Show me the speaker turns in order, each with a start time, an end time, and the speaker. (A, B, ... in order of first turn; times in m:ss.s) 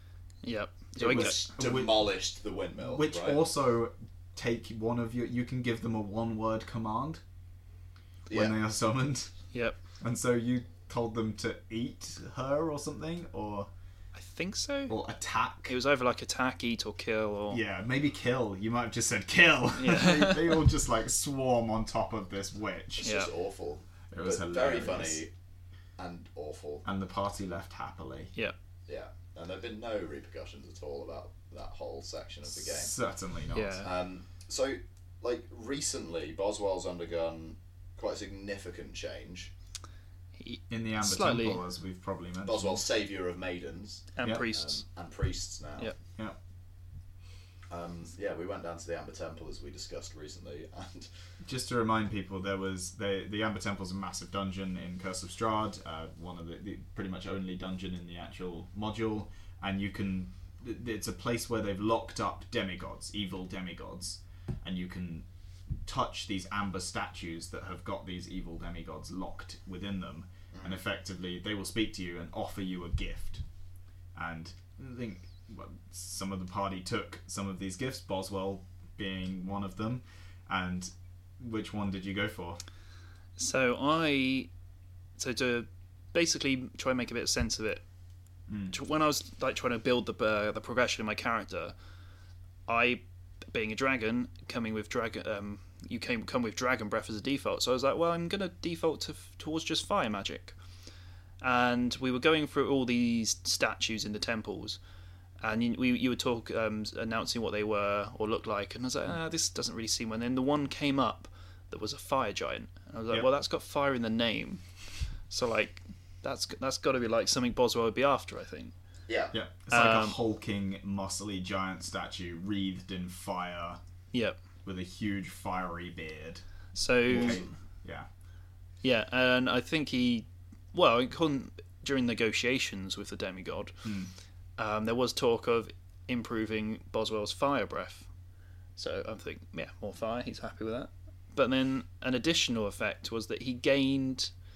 0:00.4-0:01.5 A
0:01.0-0:02.1 B
0:01.0-0:03.4 C
0:02.8-0:07.2 B
0:08.3-0:08.5 C
0:08.3-0:09.3 B
0:10.0-0:13.7 B
0:14.1-0:15.0 A
0:14.9-0:15.7 B
0:15.7-0:17.6 A
0:17.5-0:23.1 B
0:19.8-0:20.6 A
0:23.0-0:25.3 C
0:23.0-0:23.3 A
0:24.1-0:25.2 B
0:26.0-0:26.8 C
0:26.8-0:28.3 B
0:28.9-0:32.9 C
0:32.5-0:33.8 B
0:33.5-0:33.9 A
0:33.8-0:39.5 C
0:40.4-0:41.6 A
0:40.7-0:42.8 B
0:42.4-0:45.9 C
0:44.2-0:44.8 A
0:47.7-0:51.1 C
0:51.4-1:05.2 B
1:05.8-1:13.4 B
1:10.5-1:10.8 C
1:14.1-1:22.6 B
1:23.4-1:24.5 A
1:25.2-1:27.8 A
1:28.5-1:28.8 B
1:28.7-1:31.7 A
1:32.7-1:40.5 A
1:41.4-1:44.8 A
1:45.4-1:54.6 A
1:55.3-1:58.7 A
1:59.1-1:59.3 C
1:59.3-2:03.8 B
1:59.7-2:00.2 A
2:04.1-2:04.4 A
2:04.6-2:06.4 B
2:06.7-2:07.4 A
2:07.0-2:08.1 B
2:07.1-2:07.5 C
2:08.8-2:13.7 A
2:13.8-2:14.1 B
2:14.6-2:18.1 A
2:18.8-2:24.3 A